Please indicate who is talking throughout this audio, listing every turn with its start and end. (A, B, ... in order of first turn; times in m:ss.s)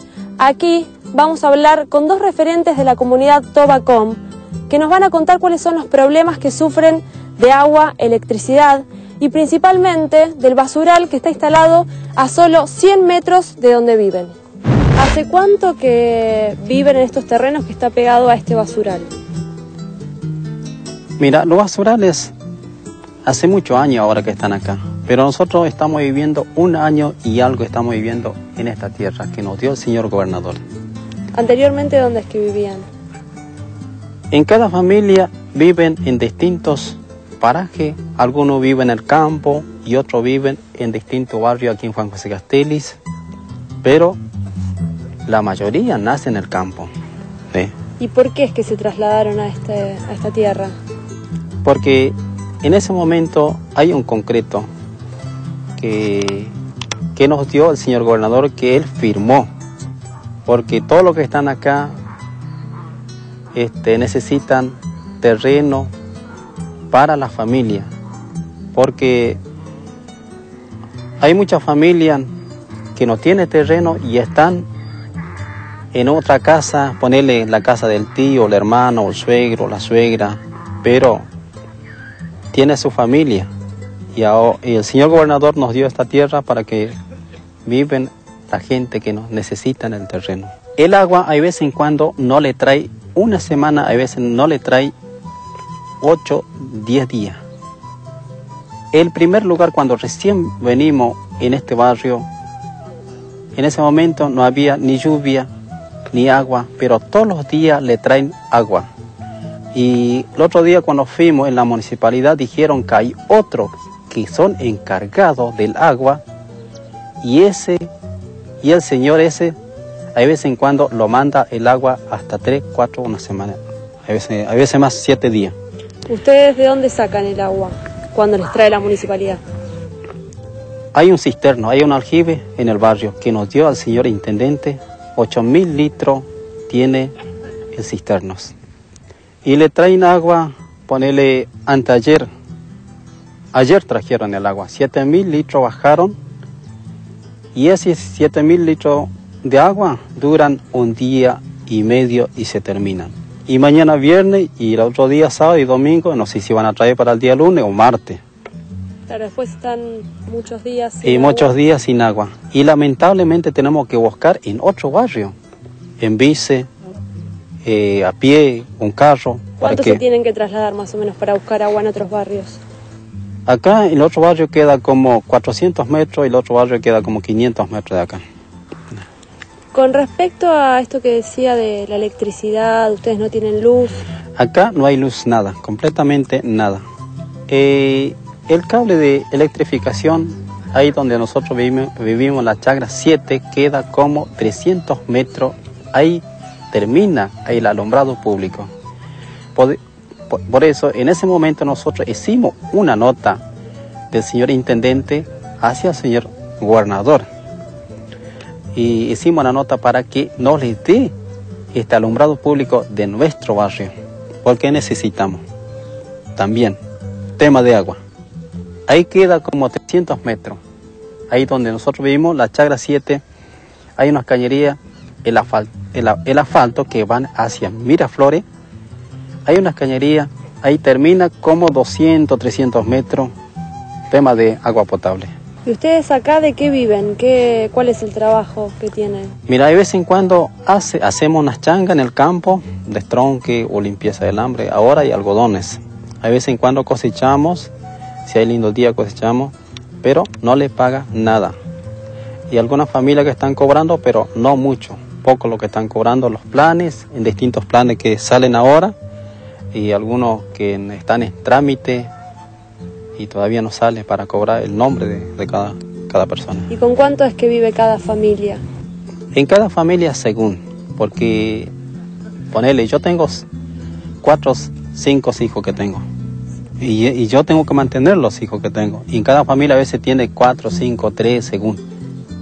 0:00.4-0:14.4 A
0:15.0-0:19.1 A
0:21.2-0:22.3 B
0:23.2-0:30.6 B
0:31.4-0:32.9 A
0:34.3-0:43.0 B
0:43.8-0:44.2 B
0:45.3-0:46.9 B
0:48.0-0:50.7 A
0:51.6-0:54.7 B
0:55.8-0:56.5 B
0:57.2-0:59.5 B
1:00.5-1:01.9 B
1:03.6-1:05.9 B
1:06.9-1:07.9 B
1:08.7-1:09.4 B
1:11.2-1:12.3 B
1:13.0-1:14.7 B
1:15.9-1:21.2 B
1:22.5-1:23.5 B
1:24.2-1:27.0 B
1:27.7-1:34.9 B
1:36.0-1:37.4 B
1:38.9-1:42.3 B
1:43.6-1:45.5 B
1:46.1-1:48.9 B
1:49.7-1:56.2 B
1:57.2-1:57.9 B
1:58.6-1:59.6 B
2:00.2-2:05.6 B
2:06.1-2:09.4 A
2:10.9-2:17.1 B
2:17.7-2:18.5 B
2:19.4-2:22.3 B
2:23.5-2:26.2 B
2:27.6-2:38.2 B
2:39.1-2:41.5 A
2:41.0-2:45.4 B
2:46.0-2:46.7 B
2:47.6-2:50.0 B
2:49.6-2:52.6 A
2:53.5-2:58.2 B
2:59.7-3:04.0 A
3:04.4-3:06.8 B
3:07.5-3:18.7 B
3:20.3-3:23.4 B
3:24.1-3:27.2 B
3:28.8-3:31.1 B
3:31.7-3:33.9 B
3:34.4-3:35.4 B
3:36.4-3:36.8 B
3:37.4-3:38.0 B
3:38.9-3:40.6 B
3:41.3-3:43.2 B
3:44.0-3:48.4 B
3:49.5-3:53.3 B
3:54.1-3:55.3 B
3:55.7-3:59.3 A
3:59.5-4:07.7 B
4:08.3-4:11.6 B
4:12.5-4:18.9 B
4:19.7-4:22.1 B
4:23.2-4:26.7 B
4:26.7-4:28.6 A
4:29.3-4:31.7 B
4:32.5-4:33.5 B
4:34.2-4:36.0 B
4:36.8-4:41.8 B